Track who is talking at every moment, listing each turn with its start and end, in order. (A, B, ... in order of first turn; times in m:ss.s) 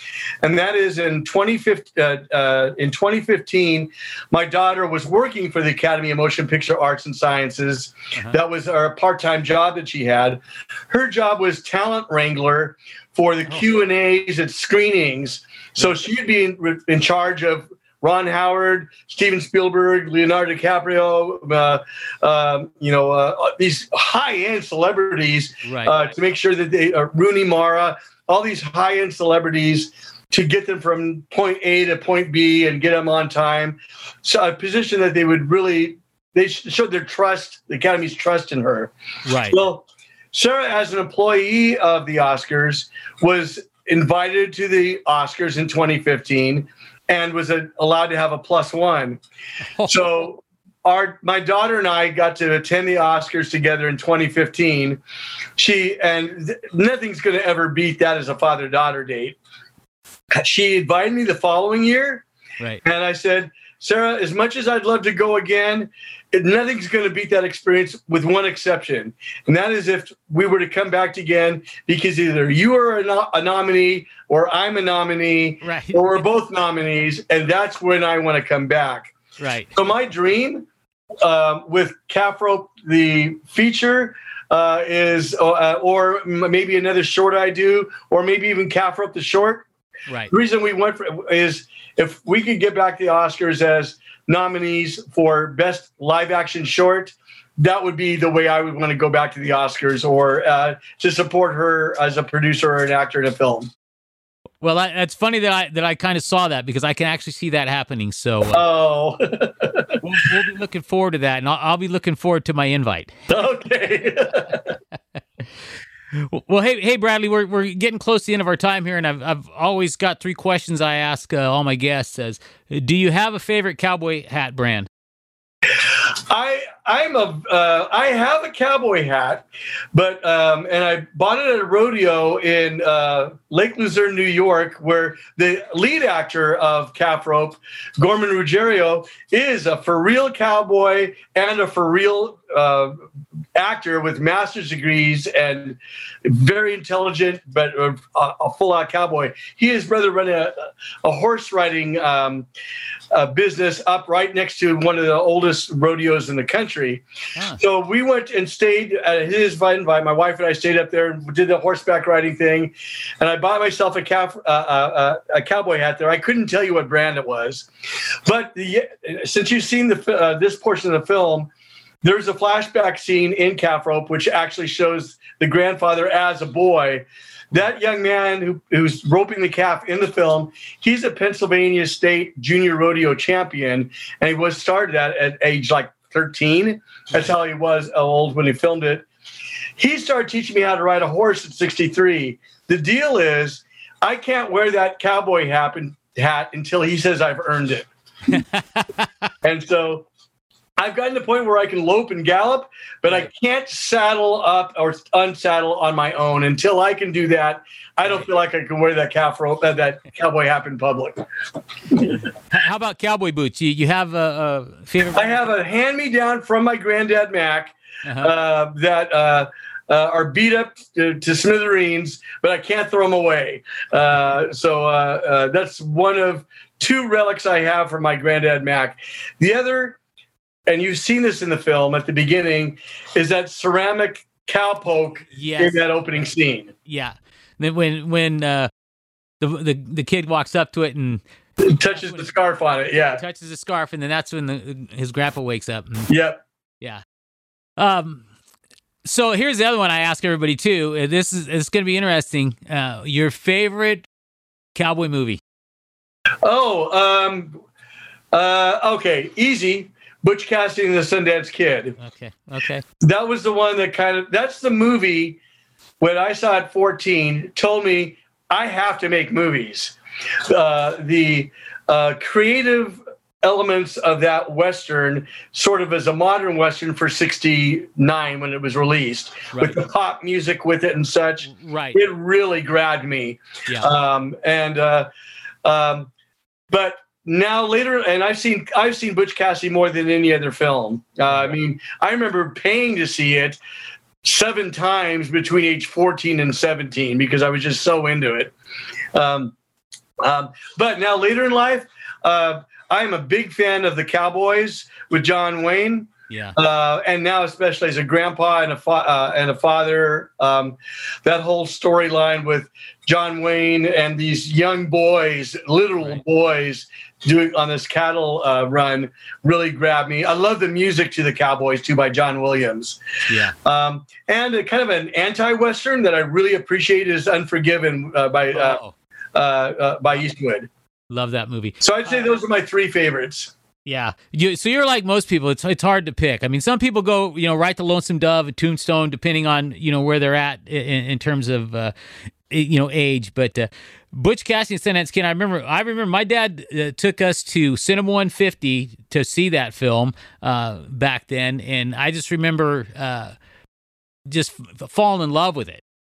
0:00.4-0:38.9 A
0:25.6-0:25.9 B
0:39.2-0:39.6 B
0:39.5-0:49.2 A
0:49.8-0:50.2 B
0:49.8-0:55.0 A
0:55.6-0:59.4 A
1:00.3-1:02.2 A
1:02.8-1:19.1 A
1:15.6-1:16.2 B
1:19.4-1:19.7 B
1:19.7-1:20.7 A
1:21.2-1:29.6 A
1:30.3-1:43.7 A
1:44.6-1:48.6 B
1:48.5-1:49.9 A
1:50.0-1:53.2 B
1:53.3-1:54.7 A
1:56.2-2:04.9 B
2:05.8-2:23.0 A
2:23.5-2:32.5 A
2:33.1-2:37.0 A
2:37.6-2:47.7 A
2:48.2-2:51.5 A
2:52.0-3:09.0 A
3:09.8-3:17.9 A
3:18.3-3:19.1 B
3:19.4-3:20.1 A
3:20.8-3:31.2 A
3:31.9-3:32.2 A
3:32.5-3:35.5 B
3:35.1-3:50.0 A
3:38.0-3:38.3 B
3:50.7-3:56.7 A
3:55.3-3:55.8 B
3:56.8-3:58.7 B
3:59.4-4:01.2 B
4:01.6-4:03.2 A
4:01.9-4:02.3 B
4:03.1-4:06.1 B
4:06.1-4:06.4 A
4:07.8-4:08.2 B
4:09.0-4:14.1 B
4:14.7-4:15.4 B
4:16.4-4:17.6 A
4:18.3-4:21.9 A
4:22.0-4:22.8 B
4:23.0-4:25.4 A
4:26.0-4:30.0 A
4:30.5-4:45.1 A
4:39.5-4:39.8 B
4:41.4-4:42.0 B
4:45.6-4:46.1 A
4:46.7-4:53.6 A
4:51.3-4:51.5 B
4:54.2-4:58.5 A
4:59.1-4:59.5 A
5:00.2-5:23.0 A
5:06.3-5:06.6 B
5:23.3-5:23.5 B
5:23.6-5:28.8 A
5:28.5-5:28.9 B
5:29.3-5:30.7 A
5:31.1-5:32.3 B
5:31.8-5:33.5 A
5:33.8-5:41.9 B
5:42.5-5:53.3 B
5:54.3-5:55.8 B